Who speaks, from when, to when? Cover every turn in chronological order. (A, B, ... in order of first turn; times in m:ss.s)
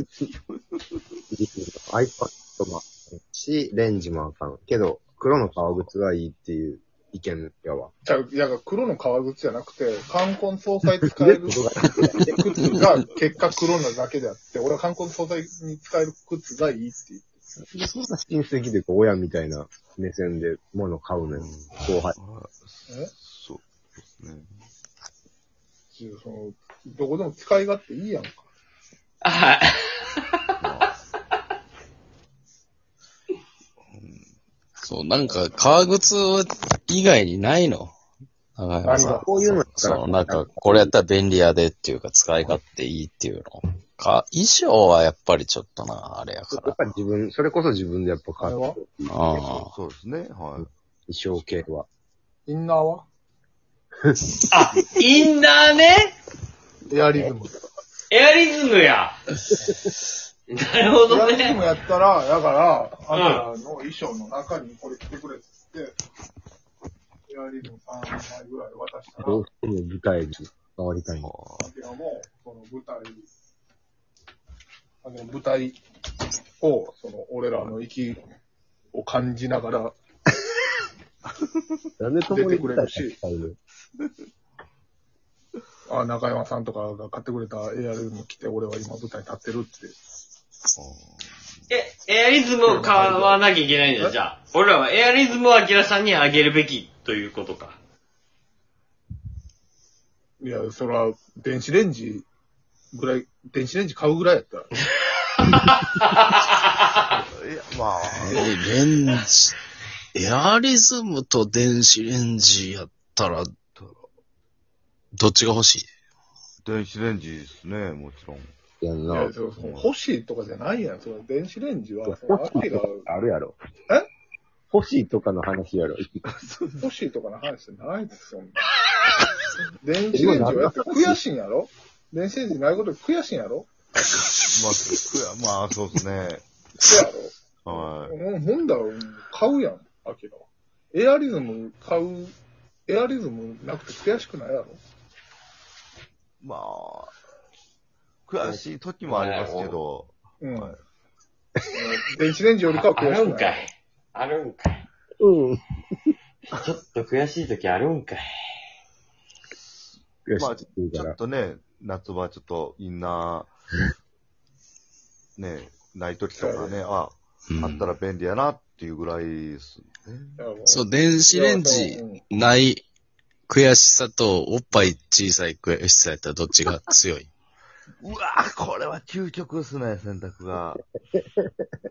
0:00.2-0:01.0 A
0:01.3-0:07.9 B
0:05.4-0:05.9 A
0:08.0-0:17.3 C
0:11.0-0:12.8 B
0:17.7-0:22.2 B
0:21.3-0:24.5 A
0:22.9-0:23.1 C
0:25.9-0:28.4 C
0:29.2-0:30.2 D
0:30.6-0:30.9 A
0:33.8-0:34.3 A
0:34.8-0:37.9 E
0:35.2-0:35.8 C
0:38.6-0:46.8 E
0:38.8-0:39.2 C
0:39.0-0:40.9 B
0:46.5-0:49.6 B
0:48.4-0:48.8 C
0:49.1-0:49.7 E
0:49.6-0:50.7 A
0:51.1-0:51.9 B
0:52.4-0:53.0 C
0:54.5-0:56.1 D
0:56.9-0:57.6 C
0:58.1-0:59.2 D
1:00.5-1:01.6 D
1:01.1-1:06.0 C
1:03.1-1:03.4 D
1:07.3-1:09.4 C
1:09.2-1:11.3 B
1:11.1-1:11.7 A
1:11.6-1:13.3 C
1:15.0-1:15.8 C
1:16.6-1:18.2 C
1:18.9-1:19.9 C
1:22.0-1:23.6 B
1:22.3-1:23.2 C
1:25.9-1:29.9 C
1:30.8-1:31.5 A
1:31.7-1:37.8 D
1:32.7-1:33.4 C
1:40.4-1:42.2 C
1:42.9-1:44.7 C
1:45.5-1:46.2 D
1:47.2-1:48.5 A
1:48.1-1:49.5 E
1:50.1-1:53.5 E
1:53.7-1:54.1 A
1:55.1-1:55.9 E
1:56.6-1:58.5 A
1:58.8-1:59.3 B
1:59.1-2:03.1 C
1:59.6-1:59.9 A
2:02.0-2:03.6 B
2:04.7-2:06.2 B
2:06.2-2:06.9 A
2:06.8-2:08.6 C
2:09.8-2:13.7 C
2:10.1-2:11.2 B
2:14.5-2:16.4 A
2:16.8-2:22.3 C
2:17.6-2:18.2 A
2:22.9-2:24.8 C
2:26.4-2:27.1 A
2:28.3-2:30.8 A
2:28.4-2:29.8 D
2:30.4-2:30.8 C
2:31.7-2:33.6 C
2:32.7-2:34.8 D
2:35.2-2:36.1 B
2:36.5-2:38.3 D
2:40.2-2:41.2 B
2:40.4-2:43.5 A
2:45.4-2:50.4 A
2:46.4-2:46.8 C
2:47.5-2:47.9 E
2:50.4-2:52.2 C
2:50.6-2:52.8 E
2:53.5-2:57.3 E
2:58.0-3:00.8 A
3:01.1-3:01.5 B